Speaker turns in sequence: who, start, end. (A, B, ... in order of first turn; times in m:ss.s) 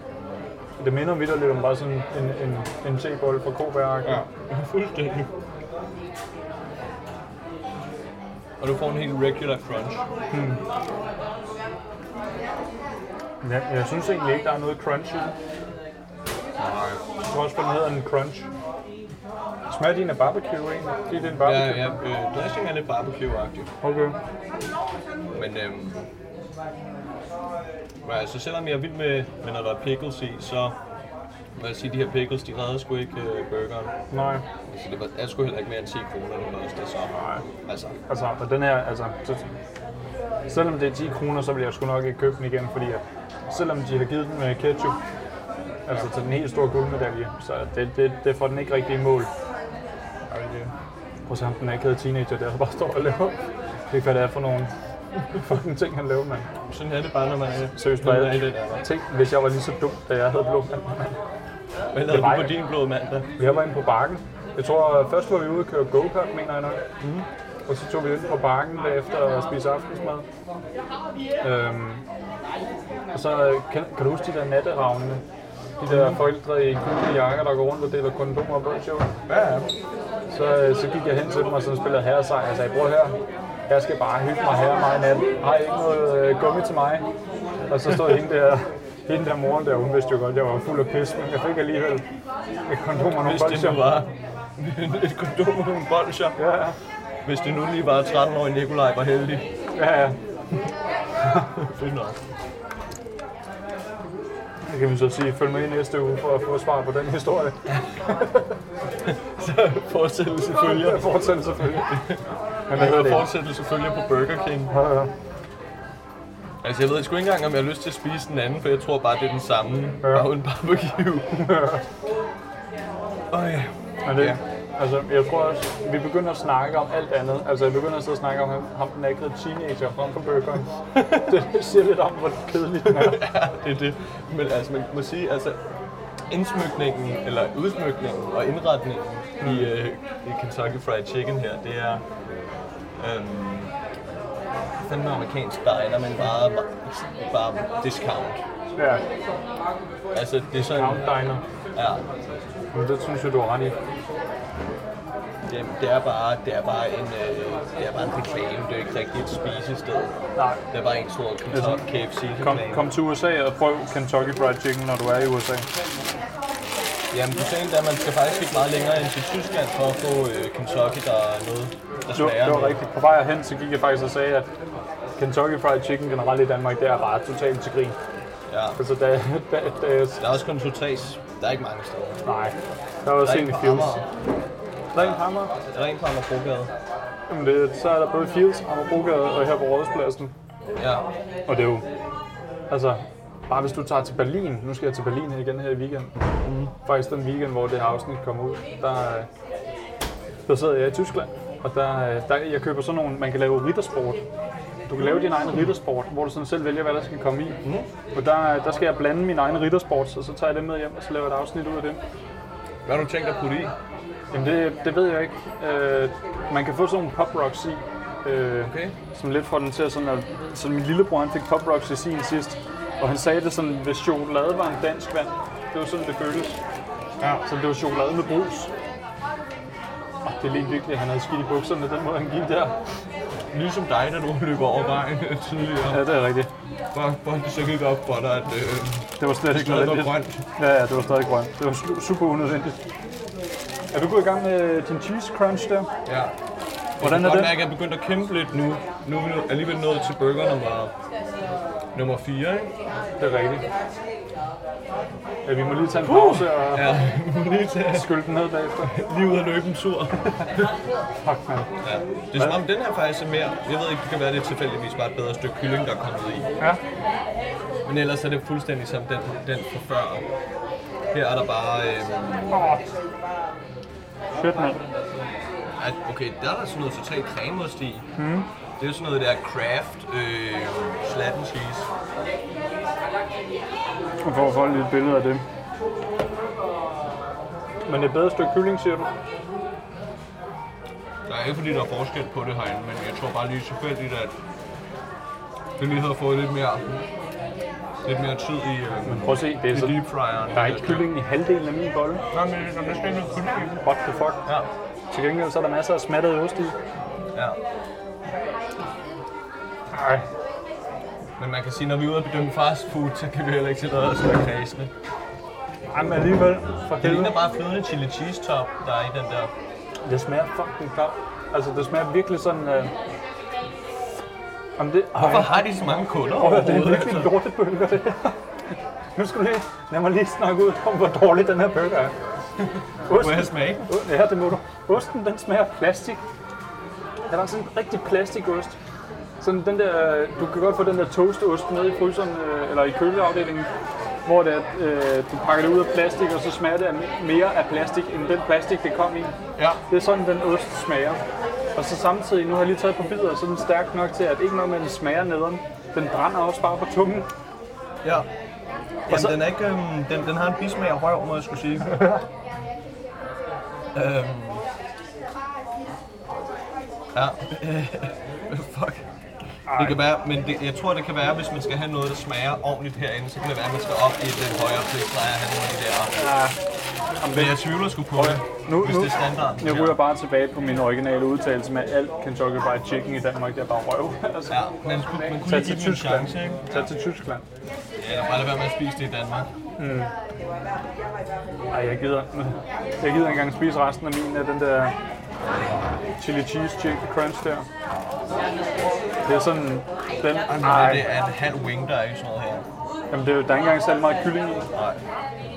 0:00.8-0:04.2 A
0:04.0-0:05.3 B
0:08.6-0:10.0 B
0:10.3-0:10.6 A
0:13.4-0:15.3 A
0:16.6-0:17.0 B
0:17.3-0:18.5 A
0:19.7-0:22.0 A
0:21.4-0:23.7 B
0:23.8-0:24.2 A
0:25.3-0:26.0 B
0:28.0-0:30.8 B
0:31.6-0:33.9 B
0:34.1-0:34.4 A
0:34.7-0:38.0 B
0:38.1-0:39.4 A
0:40.5-0:45.0 A
0:45.9-0:49.3 A
0:50.3-0:50.7 B
0:51.3-0:53.4 A
0:53.9-0:56.5 A
0:56.7-0:58.8 B
0:57.8-1:01.2 A
1:01.9-1:03.3 B
1:02.1-1:02.5 A
1:03.4-1:06.8 A
1:07.0-1:07.3 B
1:07.7-1:10.2 A
1:11.4-1:12.0 A
1:13.1-1:15.2 A
1:15.8-1:19.2 A
1:15.9-1:16.2 B
1:19.3-1:19.7 B
1:20.3-1:23.2 A
1:23.7-1:27.1 A
1:27.7-1:32.0 A
1:32.7-1:33.9 A
1:33.0-1:36.4 B
1:36.4-1:36.8 A
1:37.2-1:39.5 B
1:39.8-1:40.2 A
1:41.4-1:42.2 B
1:44.7-1:48.5 A
1:49.0-1:54.7 B
1:50.5-1:52.0 A
1:52.7-1:53.3 A
1:54.7-1:55.1 A
1:56.6-2:01.5 B
2:00.0-2:00.3 A
2:01.3-2:01.8 A
2:03.3-2:04.4 B
2:04.0-2:13.3 A
2:10.9-2:11.4 B
2:12.8-2:15.6 B
2:16.3-2:22.0 B
2:19.4-2:19.8 A
2:23.0-2:23.7 B
2:24.8-2:28.4 B
2:28.8-2:29.0 A
2:30.1-2:32.0 B
2:30.7-2:31.4 A
2:32.7-2:33.8 A
2:35.5-2:40.2 B
2:40.4-2:40.6 A
2:40.7-2:43.0 B
2:41.5-2:41.8 A
2:42.4-2:45.7 A
2:47.1-2:52.8 B
2:52.1-2:54.5 A
2:55.2-2:58.0 A
2:58.5-2:58.8 B
2:58.8-3:00.2 A
3:00.2-3:02.2 B
3:02.2-3:04.0 A
3:03.2-3:04.1 B
3:04.9-3:05.5 A
3:05.0-3:06.7 B
3:07.3-3:10.3 A
3:10.8-3:11.1 B
3:11.5-3:11.8 A
3:12.7-3:16.2 A
3:16.4-3:16.7 B
3:16.8-3:19.3 A
3:20.5-3:24.2 A
3:24.8-3:27.6 A
3:25.0-3:25.7 B
3:27.6-3:27.9 B
3:28.1-3:32.0 A
3:32.8-3:33.7 B
3:34.3-3:46.6 A
3:38.6-3:39.0 B
3:47.2-3:47.4 B
3:47.4-3:48.7 A
3:50.2-3:52.8 A
3:53.5-3:56.1 B
3:55.9-3:56.5 A
3:56.9-4:00.4 B
3:59.2-4:02.8 A
4:03.9-4:05.9 A
4:06.0-4:06.3 B
4:07.0-4:10.9 B
4:07.0-4:07.6 A
4:11.9-4:12.7 B
4:13.2-4:13.7 A
4:15.4-4:17.0 A
4:16.0-4:18.2 B
4:17.9-4:18.9 A
4:18.8-4:20.7 B
4:21.2-4:21.7 A
4:21.8-4:26.5 B
4:27.8-4:30.3 B
4:31.1-4:32.5 B
4:32.5-4:32.8 A
4:34.3-4:34.8 A
4:35.8-4:38.1 B
4:38.2-4:38.5 A
4:38.8-4:41.9 B
4:44.2-4:45.4 A
4:47.9-4:49.1 A
4:51.3-4:54.4 B
4:55.8-4:57.0 B
4:58.0-5:01.1 B
4:59.0-5:02.2 A
5:02.3-5:03.7 B
5:03.6-5:04.4 A
5:05.1-5:06.8 A
5:07.3-5:07.6 B
5:09.9-5:10.3 A
5:11.4-5:14.9 B
5:15.9-5:17.4 A
5:17.0-5:19.5 B
5:20.0-5:22.9 A
5:24.8-5:25.6 A
5:25.2-5:27.3 B
5:26.3-5:28.5 A
5:29.2-5:32.1 A
5:33.1-5:36.2 A
5:33.1-5:33.9 B
5:37.3-5:38.8 A
5:39.4-5:43.7 A
5:44.2-5:49.3 A
5:49.6-5:49.8 B
5:49.9-5:51.2 A
5:51.8-5:57.3 A
5:58.0-5:58.3 B
5:59.1-6:02.0 B
5:59.1-5:59.4 A
6:03.9-6:04.6 B
6:07.1-6:09.1 B
6:09.7-6:10.0 A
6:09.7-6:16.3 B
6:16.1-6:16.6 A
6:17.2-6:27.5 A
6:17.3-6:20.0 B
6:24.5-6:26.9 B
6:28.0-6:29.5 B
6:29.8-6:30.1 A
6:31.7-6:35.0 A
6:35.5-6:35.9 B
6:36.2-6:37.7 A
6:39.3-6:41.0 A
6:40.5-6:42.6 B
6:43.1-6:44.7 A
6:44.7-6:45.0 B